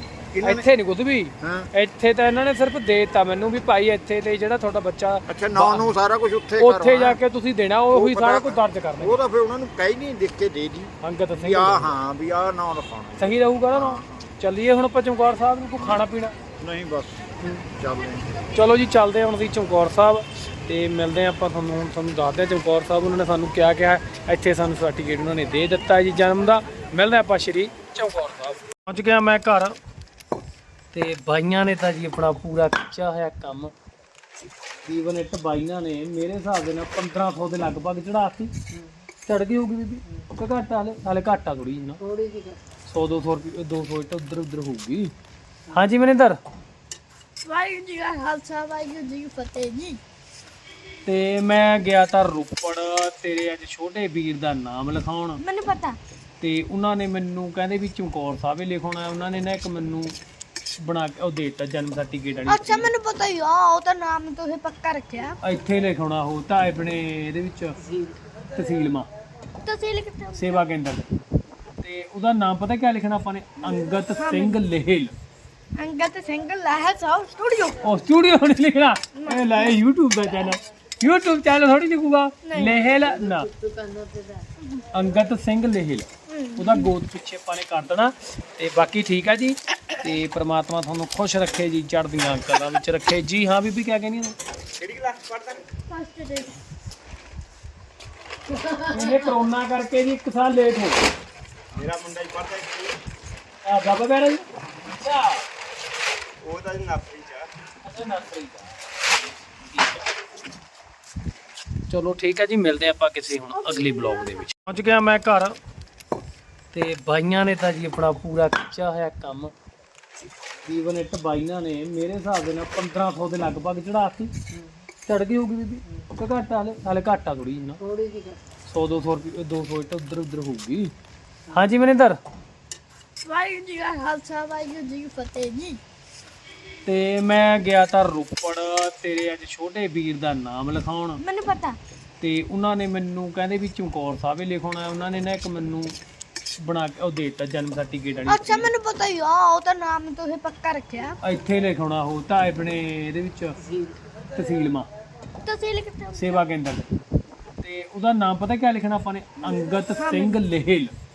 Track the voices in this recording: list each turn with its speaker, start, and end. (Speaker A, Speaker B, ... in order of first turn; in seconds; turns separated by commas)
Speaker A: 0.3-0.7, Speaker B: 0.4-5.9, Speaker A: 1.4-1.7, Speaker A: 5.3-7.2, Speaker B: 6.6-9.2, Speaker A: 7.9-14.3, Speaker B: 11.0-12.0, Speaker B: 13.2-16.4, Speaker A: 15.8-16.0, Speaker A: 16.6-18.4, Speaker B: 17.4-17.7, Speaker B: 18.5-29.8, Speaker B: 30.9-33.7, Speaker B: 34.9-38.5, Speaker C: 38.7-39.0, Speaker B: 39.3-42.0, Speaker C: 40.1-40.3, Speaker C: 42.0-42.6, Speaker B: 42.9-45.1, Speaker B: 45.7-46.4, Speaker D: 47.5-50.0, Speaker B: 51.1-55.4, Speaker D: 55.4-56.0, Speaker B: 56.4-60.1, Speaker B: 60.8-62.9, Speaker D: 62.5-65.4, Speaker B: 65.4-67.8, Speaker C: 67.8-68.2, Speaker B: 68.5-69.1, Speaker D: 69.6-70.6, Speaker B: 70.3-71.2, Speaker B: 71.8-75.2, Speaker D: 74.2-74.6, Speaker D: 75.8-77.8, Speaker B: 77.8-83.5, Speaker D: 79.2-79.8, Speaker D: 82.5-82.8, Speaker C: 82.9-84.5, Speaker D: 84.6-84.9, Speaker B: 84.9-94.4, Speaker D: 86.3-86.9, Speaker E: 94.8-95.6, Speaker D: 95.9-96.6, Speaker C: 98.5-99.4, Speaker B: 98.9-101.0, Speaker E: 101.8-102.9, Speaker B: 103.7-105.4, Speaker E: 106.4-107.5, Speaker B: 107.8-108.7, Speaker B: 109.6-110.1, Speaker B: 111.9-115.6, Speaker D: 113.5-114.4, Speaker B: 116.7-119.5, Speaker B: 120.7-124.3, Speaker C: 124.5-124.9, Speaker B: 125.1-127.8, Speaker C: 125.9-126.1, Speaker C: 127.8-128.4, Speaker B: 128.7-130.9, Speaker B: 131.5-132.2, Speaker D: 133.2-135.8, Speaker B: 136.9-141.2, Speaker D: 141.2-141.8, Speaker B: 142.2-145.9, Speaker B: 146.6-148.7, Speaker D: 148.3-151.2, Speaker B: 151.2-153.6, Speaker C: 153.6-154.0, Speaker B: 154.3-154.9, Speaker D: 155.4-156.4, Speaker B: 156.2-156.9, Speaker B: 157.6-160.9, Speaker D: 160.0-160.4